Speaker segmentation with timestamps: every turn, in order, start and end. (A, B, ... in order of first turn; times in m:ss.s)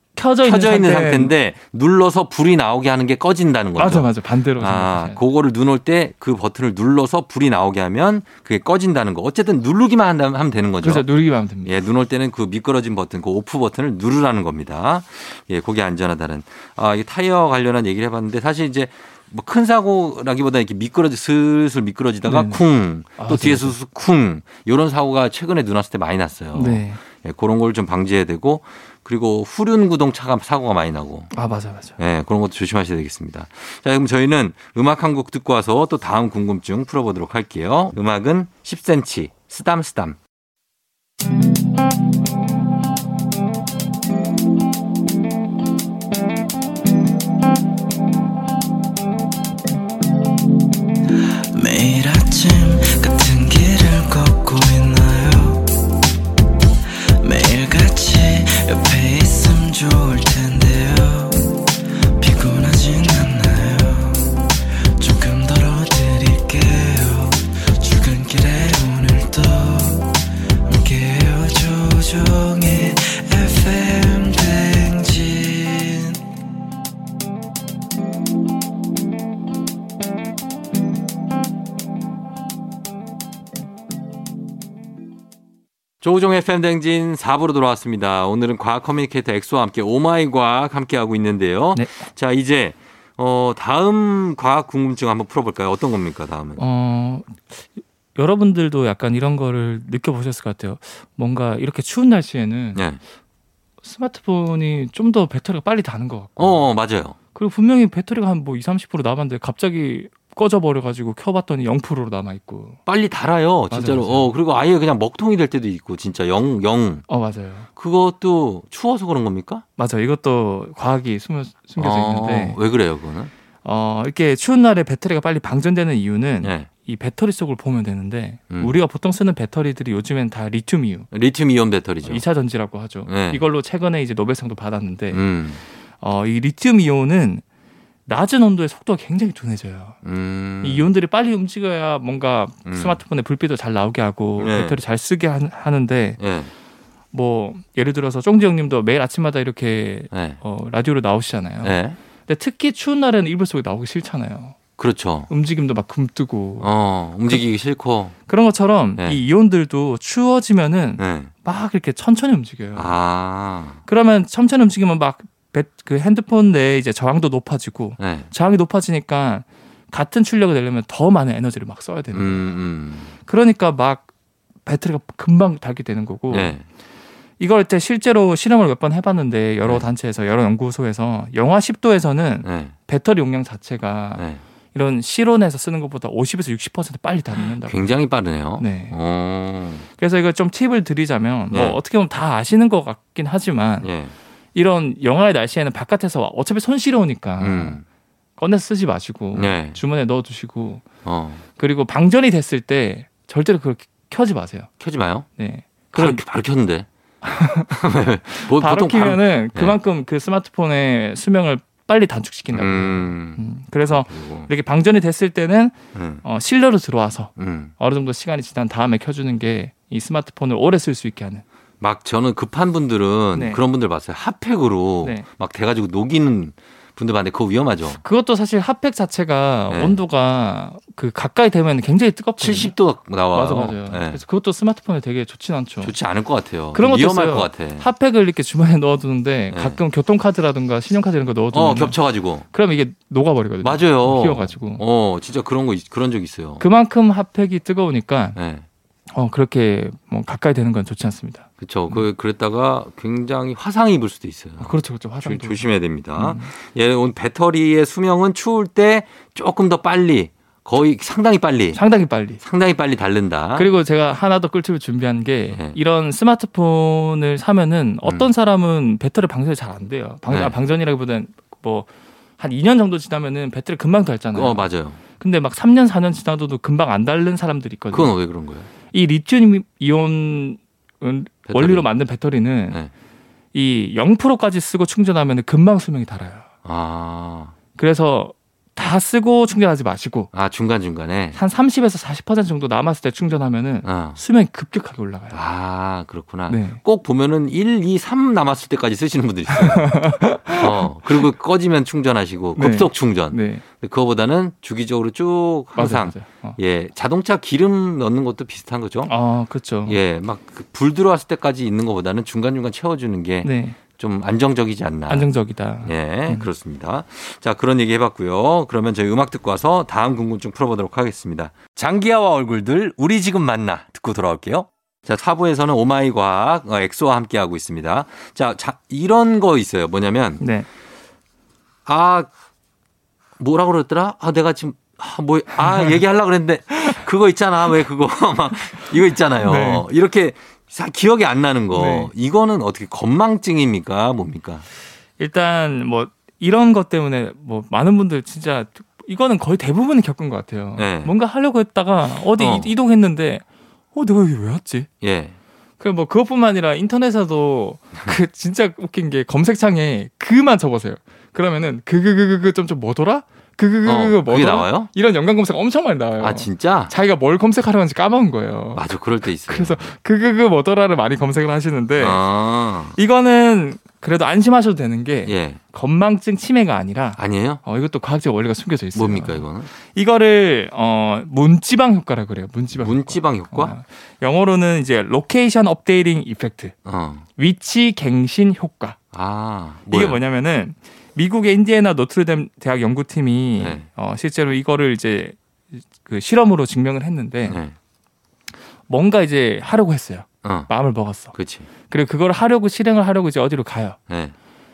0:00.2-0:01.3 A
0:00.4-0:11.1 B
0:03.8-0:05.2 A
0:10.8-0:11.7 A
0:11.6-0:31.3 B
0:22.3-0:22.6 A
0:23.2-0:23.8 A
0:26.5-0:27.0 A
0:31.3-0:32.0 A
0:32.0-0:40.2 B
0:51.5-0:55.7 C
0:57.2-1:16.2 C
1:26.0-1:36.6 B
1:31.8-1:32.1 A
1:36.6-1:42.8 A
1:42.8-1:43.0 B
1:43.8-1:46.6 A
1:46.4-1:47.2 B
1:47.4-1:52.8 A
1:52.9-1:57.1 B
1:53.7-1:54.3 A
1:57.1-1:57.7 A
1:57.8-1:59.6 B
1:59.8-2:02.6 A
2:01.8-2:03.3 B
2:03.6-2:11.1 A
2:06.4-2:06.7 B
2:11.1-2:12.2 B
2:12.0-2:15.2 A
2:13.1-2:13.4 B
2:15.1-2:15.6 B
2:16.0-2:17.4 A
2:18.1-2:20.0 A
2:20.0-2:20.9 B
2:20.6-2:26.2 A
2:22.7-2:23.0 B
2:24.4-2:24.8 B
2:26.2-2:26.5 B
2:27.1-2:34.6 A
2:30.1-2:30.4 B
2:31.6-2:32.0 B
2:34.8-2:35.3 B
2:35.3-2:36.7 A
2:36.6-2:38.1 B
2:38.3-2:43.0 A
2:41.0-2:41.3 B
2:42.8-2:43.8 B
2:43.9-2:52.5 A
2:48.0-2:48.3 B
2:52.1-2:53.1 B
2:53.2-2:54.1 A
2:54.7-2:56.6 A
2:56.3-2:56.6 B
2:57.4-3:07.8 A
3:02.4-3:02.7 B
3:07.6-3:09.9 B
3:08.6-3:09.0 A
3:10.0-3:13.9 A
3:11.5-3:11.8 B
3:13.8-3:14.1 B
3:14.6-3:17.8 A
3:17.4-3:17.8 B
3:18.4-3:20.8 A
3:19.3-3:19.8 B
3:21.0-3:21.4 B
3:21.6-3:24.7 A
3:24.8-3:25.3 B
3:25.4-3:26.2 A
3:25.9-3:26.9 B
3:27.2-3:41.4 A
3:27.7-3:29.8 B
3:32.5-3:34.5 B
3:35.9-3:36.2 B
3:37.4-3:37.7 B
3:41.8-3:48.0 B
3:43.4-3:43.6 A
3:48.0-3:52.8 A
3:49.7-3:50.0 B
3:52.4-3:54.2 B
3:53.3-3:55.9 A
3:55.8-3:57.9 B
3:56.7-4:04.8 A
3:59.5-3:59.8 B
4:01.5-4:02.4 B
4:03.6-4:06.6 B
4:06.6-4:08.4 A
4:08.4-4:08.6 B
4:09.1-4:12.0 A
4:11.6-4:21.8 B
4:14.6-4:16.5 A
4:21.8-4:22.4 A
4:22.4-4:23.7 B
4:23.6-4:31.9 A
4:25.5-4:25.8 B
4:28.0-4:28.3 B
4:32.4-4:38.2 A
4:34.3-4:35.0 B
4:37.9-4:38.7 B
4:38.9-4:42.8 A
4:41.5-4:41.9 B
4:43.5-4:46.5 A
4:46.6-4:47.6 B
4:47.8-4:50.3 A
4:50.3-4:51.4 B
4:51.4-4:55.4 A
4:53.8-4:54.2 B
4:55.3-5:09.1 B
4:56.5-4:56.8 A
4:59.5-5:01.2 A
5:02.6-5:03.6 A
5:05.8-5:06.6 A
5:09.1-5:10.0 A
5:09.9-5:15.3 B
5:13.4-5:13.8 A
5:15.1-5:16.5 A
5:15.8-5:30.4 B
5:30.4-5:30.7 A
5:31.9-5:32.3 B
5:33.4-5:44.6 B
5:35.6-5:35.9 A
5:39.4-5:39.9 A
5:41.7-5:42.1 A
5:45.2-5:54.9 A
5:50.8-5:51.1 B
5:52.4-5:52.7 B
5:55.0-5:55.4 B
5:55.8-6:08.9 A
6:03.8-6:04.9 B
6:06.2-6:06.9 B
6:08.7-6:09.8 B
6:09.4-6:12.2 A
6:12.0-6:13.0 B
6:12.9-6:26.8 A
6:15.3-6:15.6 B
6:17.2-6:17.6 B
6:19.0-6:19.7 B
6:22.7-6:23.8 B
6:26.8-6:27.3 B
6:27.4-6:29.0 A
6:29.1-6:30.2 B
6:29.9-6:37.6 A
6:33.6-6:33.8 B
6:37.5-6:37.8 B
6:38.9-6:41.3 A
6:40.4-6:40.7 B
6:41.3-6:41.7 B
6:41.9-6:44.0 A
6:44.1-6:44.3 B